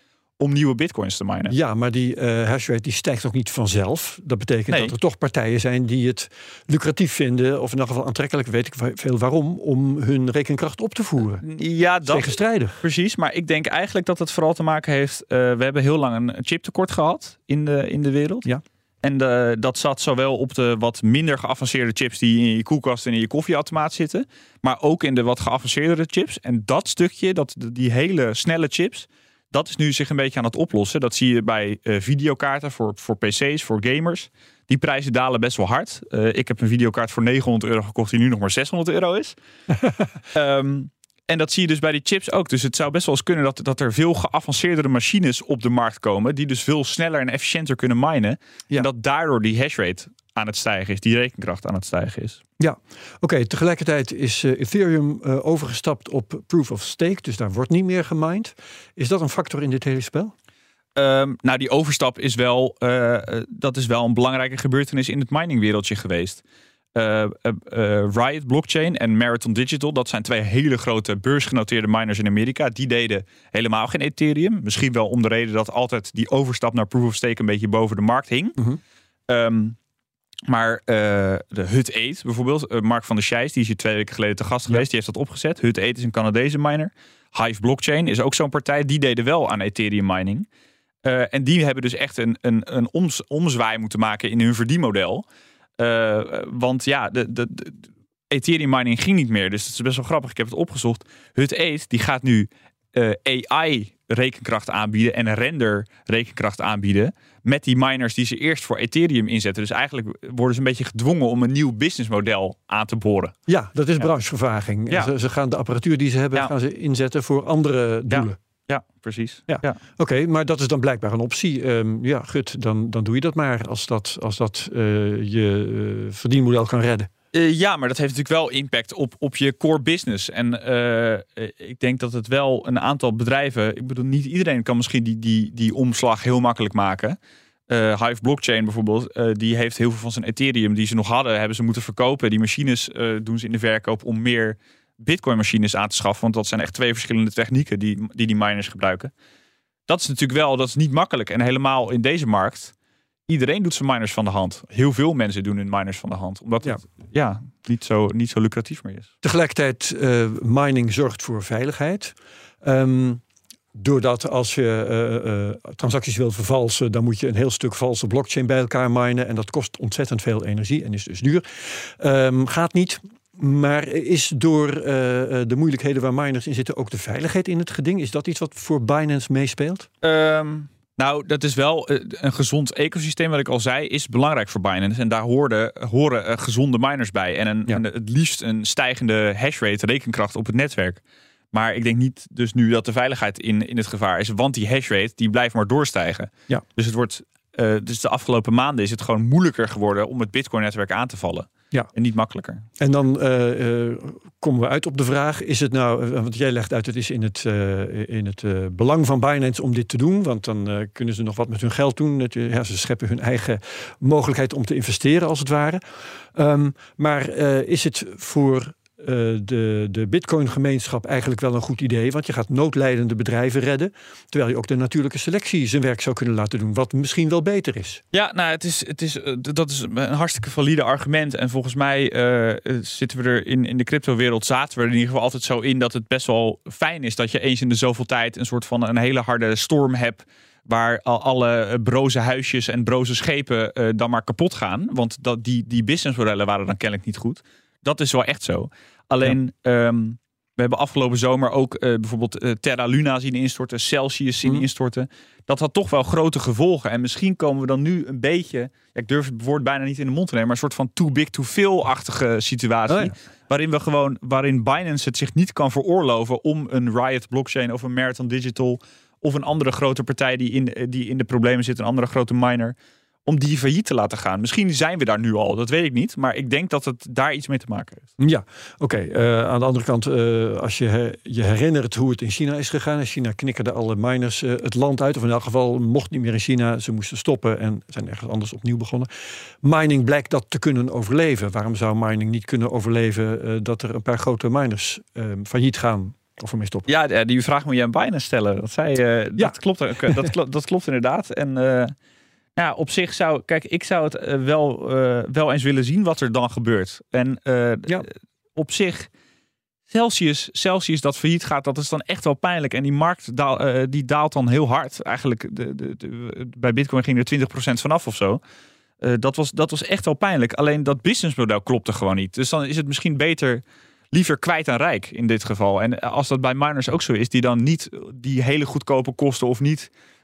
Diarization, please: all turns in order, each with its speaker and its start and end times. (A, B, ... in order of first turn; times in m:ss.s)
0:00.4-0:01.6 A
0:01.5-0:11.4 B
0:04.7-0:04.9 A
0:11.4-0:18.5 A
0:12.0-0:12.8 B
0:19.0-0:39.4 A
0:40.3-0:52.4 A
0:52.6-1:00.3 B
1:01.0-1:06.4 A
1:06.9-1:18.6 A
1:19.3-1:19.8 A
1:20.5-1:30.4 A
1:31.0-1:35.2 A
1:35.8-1:53.3 A
1:53.5-1:58.4 B
1:58.1-1:59.8 A
1:59.5-2:07.1 B
2:07.3-2:17.2 A
2:17.7-2:29.1 A
2:29.9-2:32.7 A
2:33.3-2:39.1 A
2:39.2-2:43.2 B
2:43.7-2:59.9 B
3:00.0-3:22.6 A
3:22.8-3:35.8 B
3:36.3-3:48.0 B
3:48.1-4:32.7 A
4:33.2-4:38.1 A
4:38.2-4:49.1 B
4:49.6-4:56.9 B
4:56.9-5:01.9 A
4:59.4-5:00.3 B
5:02.6-5:09.1 A
5:09.9-5:18.4 A
5:19.0-5:29.9 A